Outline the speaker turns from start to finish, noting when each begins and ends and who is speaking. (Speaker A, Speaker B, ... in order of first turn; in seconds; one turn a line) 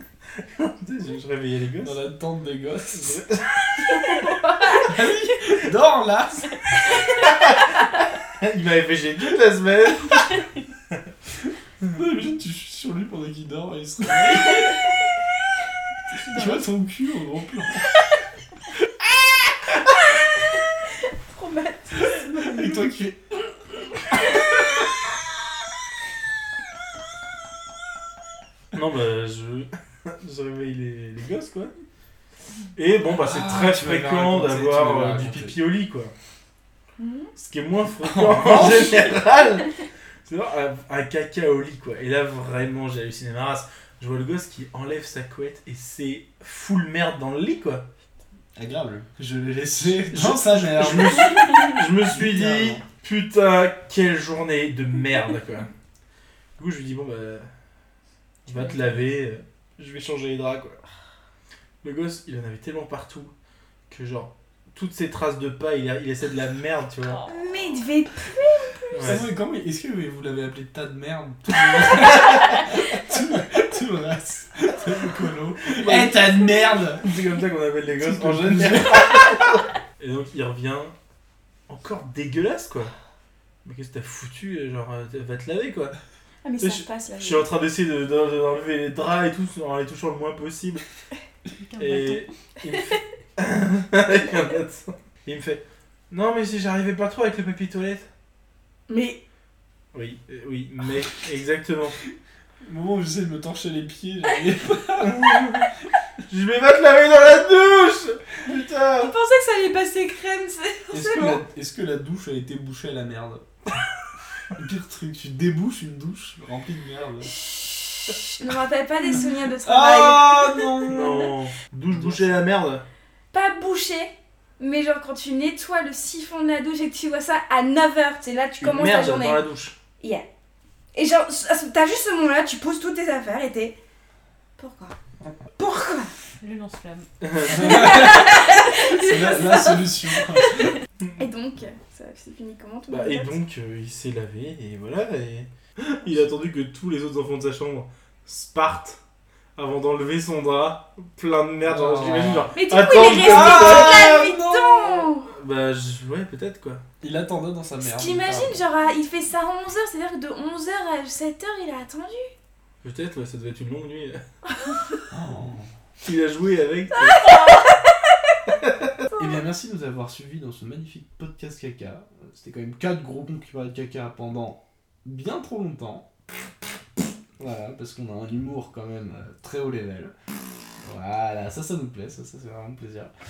Speaker A: 0.4-2.0
Speaker B: 1.8-3.2
Speaker A: 2.9-4.1
Speaker B: 4.7-6.6
Speaker A: 7.2-7.7
Speaker A: 8.3-10.4
Speaker B: 11.8-14.8
Speaker C: 16.1-16.6
Speaker B: 16.3-17.9
Speaker D: 21.3-22.7
Speaker B: 22.1-23.4
Speaker A: 28.7-31.7
Speaker A: 32.8-36.1
Speaker B: 33.1-35.6
Speaker D: 37.0-37.3
Speaker A: 37.4-39.7
Speaker B: 38.0-39.2
Speaker A: 40.2-47.9
Speaker B: 48.5-52.8
Speaker A: 49.9-55.7
Speaker A: 56.6-57.5
Speaker C: 58.5-59.0
Speaker A: 58.5-60.8
Speaker A: 61.8-63.3
Speaker A: 63.9-67.2
Speaker C: 67.1-67.3
Speaker D: 67.3-69.2
Speaker A: 68.9-69.2
Speaker B: 69.0-77.0
Speaker A: 75.6-76.2
Speaker A: 76.9-80.9
Speaker B: 78.0-79.4
Speaker A: 81.7-82.9
Speaker A: 83.6-85.9
Speaker D: 86.4-87.5
Speaker A: 86.6-90.8
Speaker C: 91.6-92.3
Speaker A: 91.8-98.0
Speaker D: 98.9-99.2
Speaker A: 99.9-102.0
Speaker B: 102.6-105.6
Speaker A: 105.0-105.6
Speaker A: 106.3-109.1
Speaker D: 109.0-111.4
Speaker B: 110.9-113.4
Speaker B: 114.5-117.3
Speaker D: 117.5-121.3
Speaker B: 119.6-121.3
Speaker A: 120.9-122.8
Speaker B: 121.9-122.4
Speaker D: 123.3-129.4
Speaker A: 128.6-129.7
Speaker D: 130.0-130.2
Speaker D: 130.9-133.8
Speaker D: 134.6-134.9
Speaker D: 135.6-136.1
Speaker C: 136.4-137.6
Speaker A: 137.2-137.7
Speaker D: 137.5-143.4
Speaker B: 137.5-140.8
Speaker A: 142.9-149.0
Speaker A: 149.6-154.1
Speaker B: 151.6-152.5
Speaker D: 152.5-155.3
Speaker B: 153.2-155.1
Speaker A: 155.3-156.8
Speaker B: 157.0-158.6
Speaker D: 157.8-162.3
Speaker A: 162.8-164.2
Speaker B: 165.1-165.7
Speaker A: 166.0-167.2
Speaker D: 167.1-167.8
Speaker A: 168.5-168.9
Speaker B: 169.2-176.1
Speaker B: 177.4-180.1
Speaker B: 180.8-183.1